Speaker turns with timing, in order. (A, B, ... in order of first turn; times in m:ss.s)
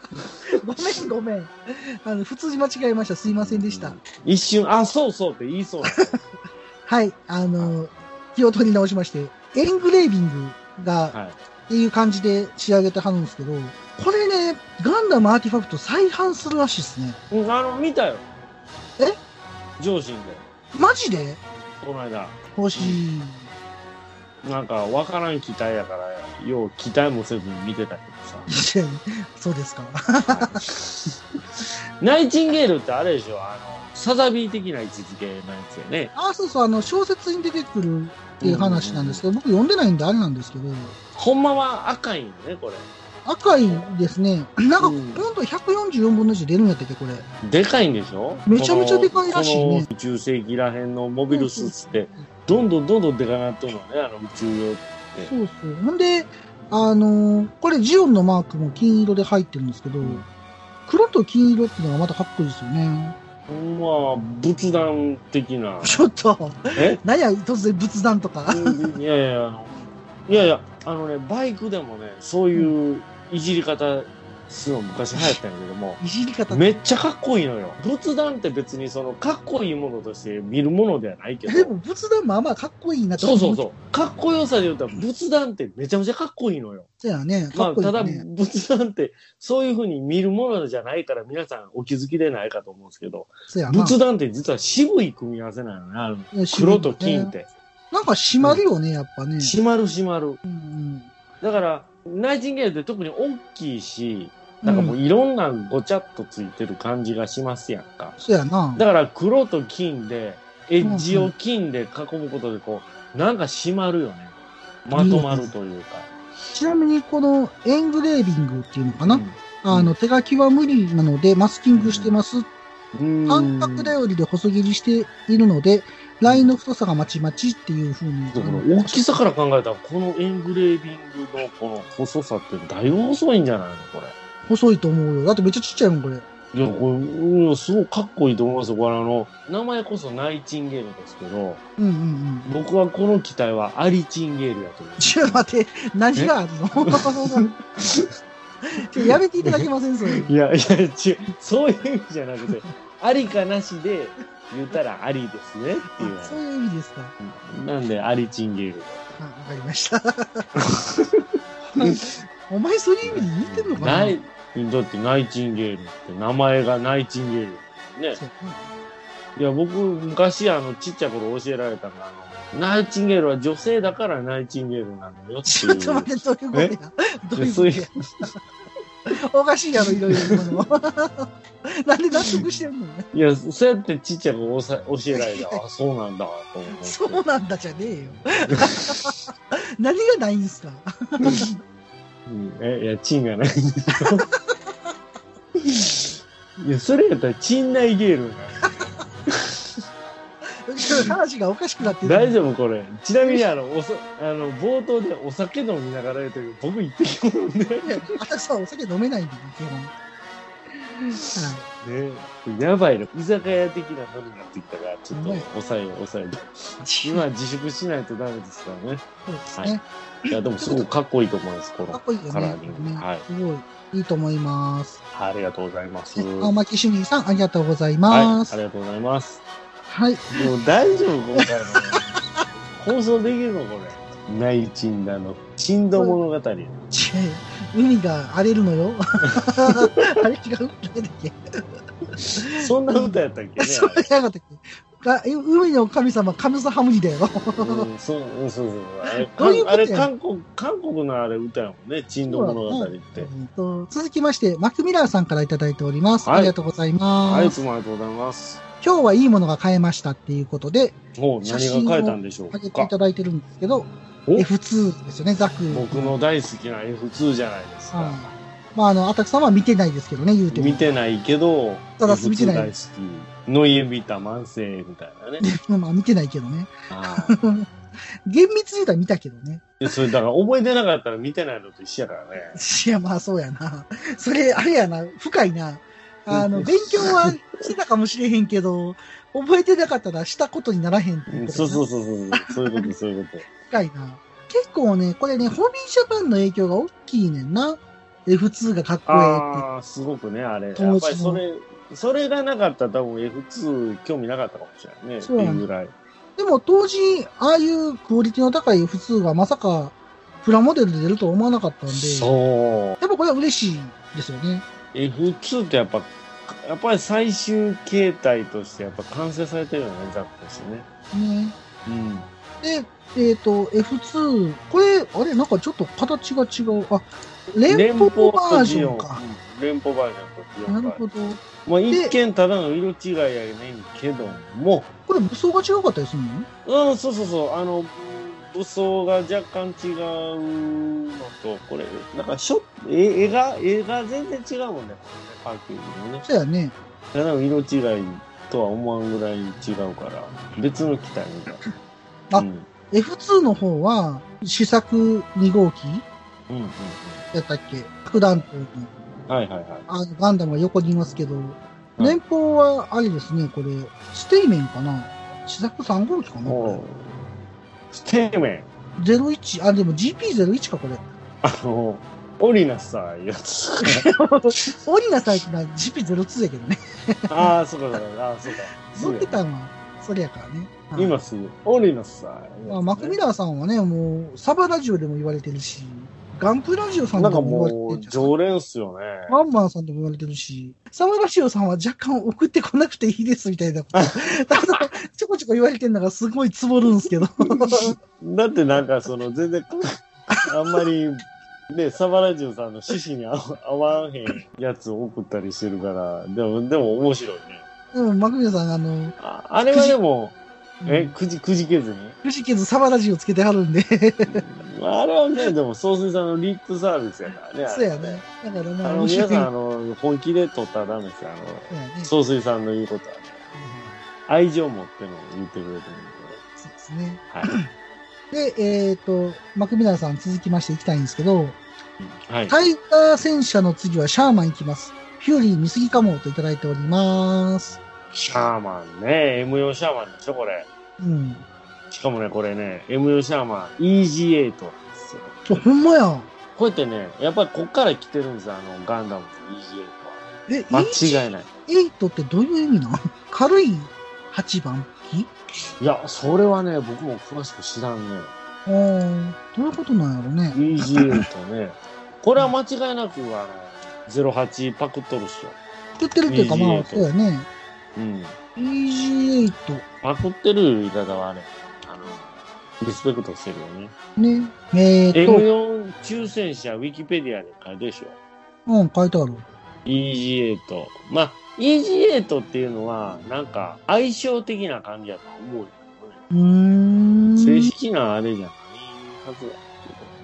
0:00.6-0:04.0 A
0:03.3-0:06.2 B
0:06.8-0:11.1 A
0:11.1-0:11.4 B
0:11.7-0:17.2 A
0:17.3-0:18.2 B
0:19.8-0:20.4 B
0:20.7-0:21.4 A
0:21.8-0:23.0 B
0:22.6-0:23.5 A
0:24.4-0:28.5 B
0:28.5-0:30.6 A
0:30.3-0:31.2 B
0:32.0-0:36.1 B
0:36.1-0:41.0 A
0:38.4-0:39.2 B
0:41.1-0:42.9 B
0:43.2-0:47.2 A
0:44.8-0:45.2 B
0:47.4-0:55.3 B
0:48.5-0:49.9 A
0:51.3-0:52.3 A
0:55.2-1:00.2 A
1:00.9-1:03.2 A
1:03.5-1:06.0 B
1:05.8-1:08.8 A
1:08.5-1:21.7 B
1:16.0-1:16.7 A
1:21.5-1:23.6 A
1:23.2-1:26.9 B
1:27.0-1:28.2 A
1:27.5-1:37.5 B
1:33.5-1:34.0 A
1:36.3-1:37.3 A
1:37.9-1:39.5 A
1:39.4-1:40.4 B
1:40.4-1:41.1 A
1:41.4-1:48.2 B
1:44.6-1:45.0 A
1:48.2-1:48.8 A
1:48.7-1:54.3 B
1:50.8-1:51.3 A
1:54.8-1:56.1 B
1:54.9-1:55.5 A
1:56.5-2:02.5 A
1:59.0-1:59.9 B
2:01.7-2:02.1 B
2:02.9-2:03.9 B
2:03.3-2:09.2 A
2:08.3-2:14.1 B
2:14.5-2:16.2 A
2:16.5-2:21.6 B
2:21.8-2:22.5 A
2:22.4-2:25.4 B
2:25.0-2:27.4 A
2:26.1-2:28.1 B
2:28.7-2:30.3 A
2:29.0-2:36.4 B
2:35.9-2:37.1 A
2:37.2-2:39.0 B
2:39.2-2:40.5 A
2:40.6-2:41.2 B
2:41.8-2:42.1 B
2:42.5-2:44.2 A
2:43.0-2:48.2 B
2:48.2-2:48.7 A
2:49.4-2:56.7 B
2:55.4-2:58.3 A
2:57.4-2:58.3 B
2:59.1-3:03.1 A
2:59.8-3:00.6 B
3:03.1-3:07.2 B
3:05.1-3:05.6 A
3:06.8-3:11.5 A
3:08.5-3:09.0 B
3:11.2-3:11.5 B
3:12.3-3:14.2 B
3:15.6-3:19.6 B
3:20.6-3:22.4 A
3:21.8-3:28.2 B
3:27.8-3:29.9 A
3:31.3-3:31.6 A
3:31.8-3:39.0 B
3:35.1-3:35.4 A
3:36.8-3:37.2 A
3:39.2-3:40.9 A
3:40.3-3:43.2 B
3:41.9-3:45.0 A
3:45.1-3:46.5 B
3:46.2-3:48.6 A
3:48.1-3:49.4 B
3:49.9-3:50.5 A
3:50.3-3:52.0 B
3:51.4-3:52.0 A
3:52.8-3:56.7 B
3:56.9-4:01.4 A
3:59.3-3:59.9 B
4:02.4-4:07.9 A
4:02.6-4:04.1 B
4:07.5-4:13.3 B
4:09.2-4:10.1 A
4:12.2-4:17.6 A
4:16.2-4:16.5 B
4:17.2-4:18.6 B
4:18.8-4:26.1 A
4:21.1-4:22.9 B
4:25.7-4:28.3 B
4:27.9-4:30.9 A
4:30.5-4:35.4 B
4:32.0-4:32.7 A
4:35.4-4:37.6 A
4:36.9-4:37.4 B
4:38.2-4:40.0 A
4:39.8-4:42.6 B
4:42.5-4:52.9 A
4:46.3-4:47.4 B
4:51.3-4:53.4 B
4:53.6-4:59.6 A
4:59.1-5:05.9 B
5:00.8-5:01.4 A
5:05.2-5:05.6 A
5:06.4-5:12.3 A
5:11.9-5:13.0 B
5:13.0-5:14.6 A
5:14.9-5:20.9 B
5:21.1-5:21.5 A
5:21.8-5:22.3 B
5:22.6-5:29.2 A
5:27.7-5:31.0 B
5:30.7-5:32.1 A
5:31.6-5:34.9 B
5:35.1-5:36.5 A
5:36.6-5:46.2 B
5:46.2-5:46.7 A
5:47.1-5:51.6 B
5:52.3-5:56.0 A
5:52.3-5:52.7 B
5:56.5-5:57.2 B
5:57.3-5:58.9 A
5:58.1-5:58.4 B
5:59.3-5:59.8 B
5:59.9-6:06.8 A
6:06.4-6:07.2 B
6:07.9-6:08.7 B
6:09.0-6:11.0 A
6:11.4-6:14.6 B
6:13.8-6:17.5 A
6:17.3-6:19.4 B
6:18.9-6:21.2 A
6:20.9-6:23.2 B
6:22.6-6:28.3 A
6:27.2-6:29.4 B
6:29.3-6:38.0 A
6:33.9-6:34.6 B
6:36.9-6:47.6 B
6:40.3-6:40.8 A
6:47.9-6:50.0 A
6:49.2-6:52.2 B
6:50.8-6:51.1 A
6:52.2-6:54.4 A
6:54.3-6:58.2 B
6:57.7-6:59.5 A
6:58.8-7:03.5 B
7:01.7-7:02.1 A
7:03.5-7:03.9 A
7:04.2-7:06.4 B
7:06.6-7:07.6 A
7:08.3-7:11.6 A
7:12.0-7:12.6 B
7:12.5-7:17.8 A
7:18.1-7:20.7 B
7:21.0-7:21.4 A
7:21.9-7:25.4 B
7:25.5-7:26.3 A
7:26.5-7:31.5 B
7:30.5-7:35.3 A
7:35.8-7:38.3 B
7:38.6-7:41.2 A
7:40.5-7:45.6 B
7:46.0-7:47.5 A
7:46.3-7:47.1 B
7:48.0-7:48.4 B
7:48.6-7:49.8 A
7:50.0-7:53.9 B
7:54.2-7:55.4 A
7:55.1-7:58.2 B
7:58.7-7:59.4 A
7:59.8-8:06.2 B
8:06.3-8:07.7 A
8:07.4-8:10.1 B